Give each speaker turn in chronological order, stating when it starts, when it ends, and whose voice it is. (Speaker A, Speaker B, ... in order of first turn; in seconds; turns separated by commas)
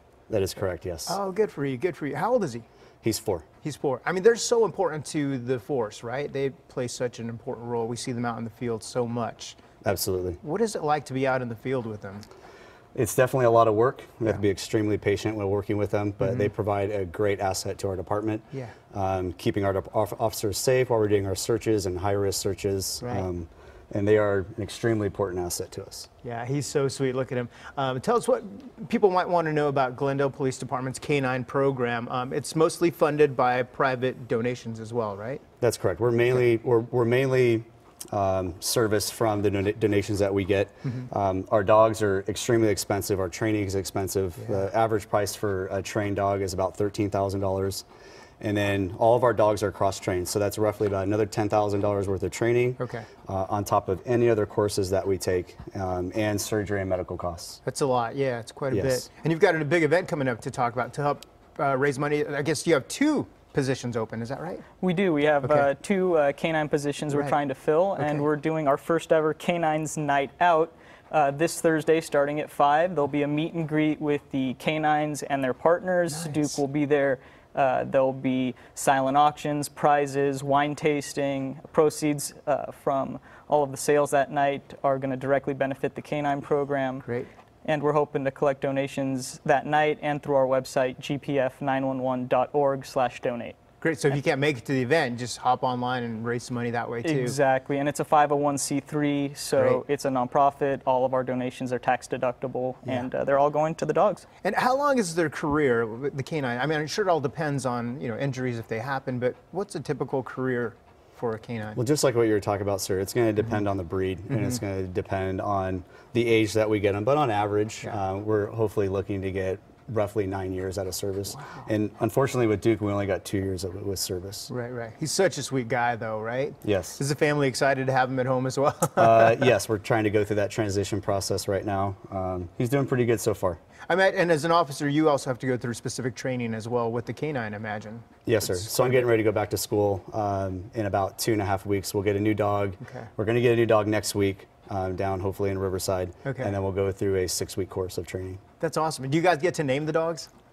Speaker A: 0.3-1.2, Speaker B: 1.1-2.6, Speaker A: 3.0-3.5, Speaker B: 3.6-9.6, Speaker A: 9.8-10.4, Speaker B: 10.4-12.3, Speaker A: 12.9-26.1, Speaker B: 16.2-16.5, Speaker B: 23.0-23.3, Speaker B: 26.2-35.4, Speaker A: 35.6-47.8, Speaker B: 44.4-44.6, Speaker A: 48.4-57.6, Speaker B: 52.8-53.1, Speaker B: 57.6-64.6, Speaker A: 58.7-59.0, Speaker C: 64.8-87.0, Speaker B: 65.4-65.7, Speaker B: 67.1-67.3, Speaker B: 68.0-68.2, Speaker B: 76.1-76.6, Speaker B: 87.0-87.3, Speaker C: 87.6-93.5, Speaker B: 93.8-97.4, Speaker C: 97.0-104.3, Speaker B: 99.5-99.8, Speaker B: 102.8-103.1, Speaker B: 104.4-111.8, Speaker A: 111.8-124.5, Speaker B: 121.3-121.7, Speaker B: 124.5-129.5, Speaker A: 126.6-127.0, Speaker A: 128.9-133.6, Speaker B: 133.9-139.0, Speaker A: 138.2-148.4, Speaker B: 142.8-143.1, Speaker B: 146.2-146.5, Speaker B: 148.6-150.3